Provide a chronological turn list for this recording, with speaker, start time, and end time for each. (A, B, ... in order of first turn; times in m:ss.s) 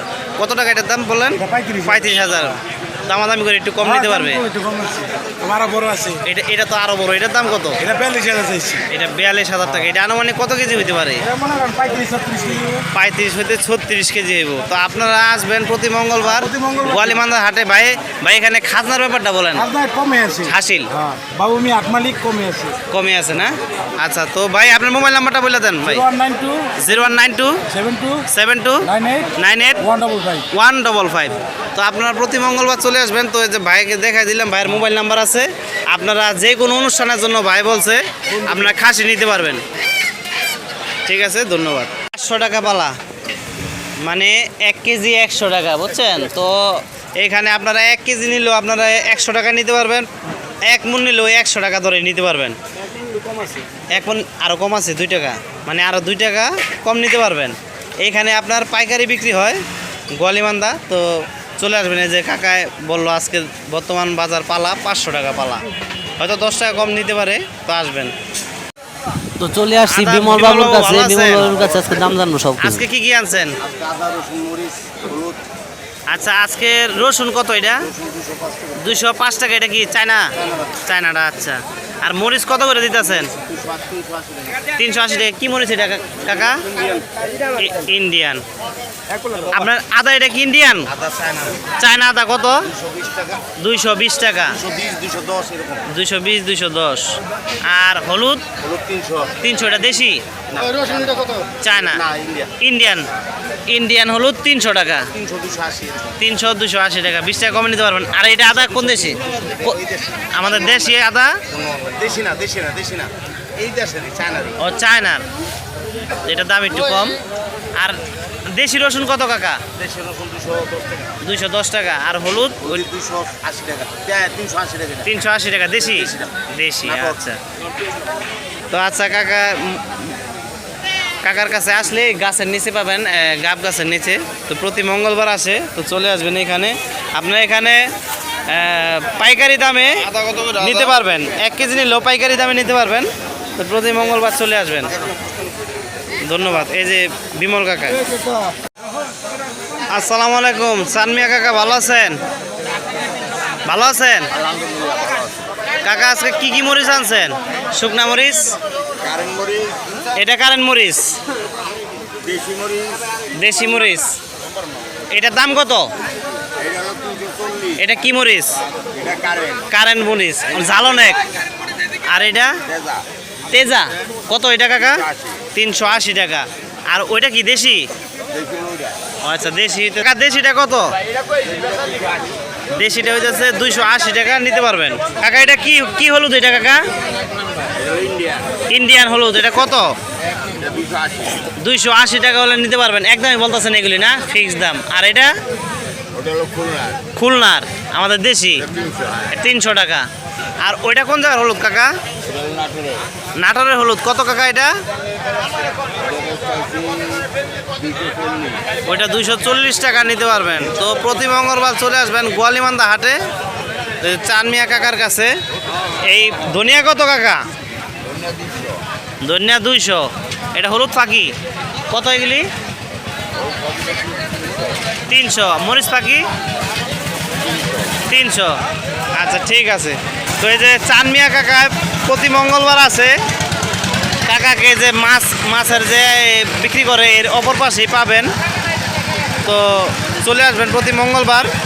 0:00.4-0:04.4 A
0:01.4-0:02.1 B
0:03.8-0:06.2 B
0:06.2-0:07.8 A
0:07.8-0:08.8 B
0:08.9-0:11.2 A
0:11.2-0:12.8 B
0:12.9-0:19.7 A
0:16.2-0:17.2 B
0:19.5-0:22.7 B
0:20.4-0:20.9 A
0:22.9-0:26.0 A
0:25.8-0:26.7 B
0:26.8-0:27.6 A
0:27.7-0:28.2 B
0:28.3-0:29.8 A
0:28.8-0:30.4 B
0:30.5-0:39.6 A
0:41.1-0:42.9 A
0:44.0-0:50.1 A
0:50.7-0:52.6 A
0:52.8-0:53.9 B
0:53.9-0:59.6 A
1:00.2-1:05.6 A
1:06.2-1:08.1 A
1:09.4-1:12.8 C
1:09.9-1:11.6 A
1:12.6-1:13.6 A
1:13.6-1:15.4 D
1:16.1-1:17.9 A
1:18.0-1:18.7 D
1:18.8-1:20.3 A
1:20.8-1:23.3 A
1:23.4-1:24.6 D
1:24.8-1:26.6 A
1:26.7-1:27.0 D
1:27.6-1:28.4 A
1:29.2-1:29.5 B
1:29.5-1:30.9 A
1:31.0-1:31.6 D
1:31.8-1:32.7 A
1:32.9-1:33.4 D
1:33.6-1:34.6 A
1:34.6-1:35.8 D
1:35.9-1:37.1 A
1:37.6-1:38.4 A
1:38.7-1:39.3 D
1:39.4-1:40.2 A
1:40.5-1:41.3 D
1:41.6-1:42.0 A
1:42.1-1:42.5 D
1:42.6-1:43.1 A
1:43.7-1:45.1 A
1:45.2-1:46.1 D
1:46.2-1:49.8 A
1:50.3-1:51.4 A
1:51.5-1:54.5 D
1:54.6-1:55.2 A
1:56.2-1:57.2 A
1:58.5-1:59.6 A
1:59.8-2:01.1 D
2:01.2-2:02.8 A
2:02.8-2:05.0 D
2:05.0-2:07.4 A
2:08.7-2:10.1 A
2:11.2-2:17.9 A
2:18.5-2:24.9 A
2:26.2-2:28.0 A
2:29.9-2:32.2 A
2:33.6-2:34.3 A
2:34.5-2:35.3 D
2:35.8-2:38.6 A
2:39.0-2:39.8 D
2:40.1-2:41.2 A
2:42.2-2:43.1 D
2:43.4-2:44.1 A
2:45.1-2:45.9 A
2:46.6-2:47.7 D
2:47.8-2:48.6 A
2:48.9-2:49.6 D
2:49.7-2:51.2 A
2:52.1-2:52.5 A
2:53.5-2:57.9 A
2:58.4-2:58.9 D
2:59.2-3:00.9 A
3:02.7-3:06.8 A
3:07.8-3:08.4 D
3:08.7-3:09.9 A
3:10.7-3:11.2 D
3:11.6-3:15.3 A
3:16.2-3:17.0 D
3:17.1-3:18.6 A
3:19.3-3:20.0 A
3:20.6-3:21.9 A
3:22.6-3:22.9 D
3:23.4-3:24.7 A
3:26.1-3:27.3 D
3:27.8-3:28.6 D
3:28.9-3:33.2 A
3:34.0-3:35.3 A
3:36.0-3:37.4 A
3:39.2-3:41.3 A
3:41.9-3:42.5 A
3:45.1-3:46.3 A
3:48.1-3:48.6 A
3:49.1-3:53.2 A
3:54.2-3:58.3 A
3:59.4-4:01.5 A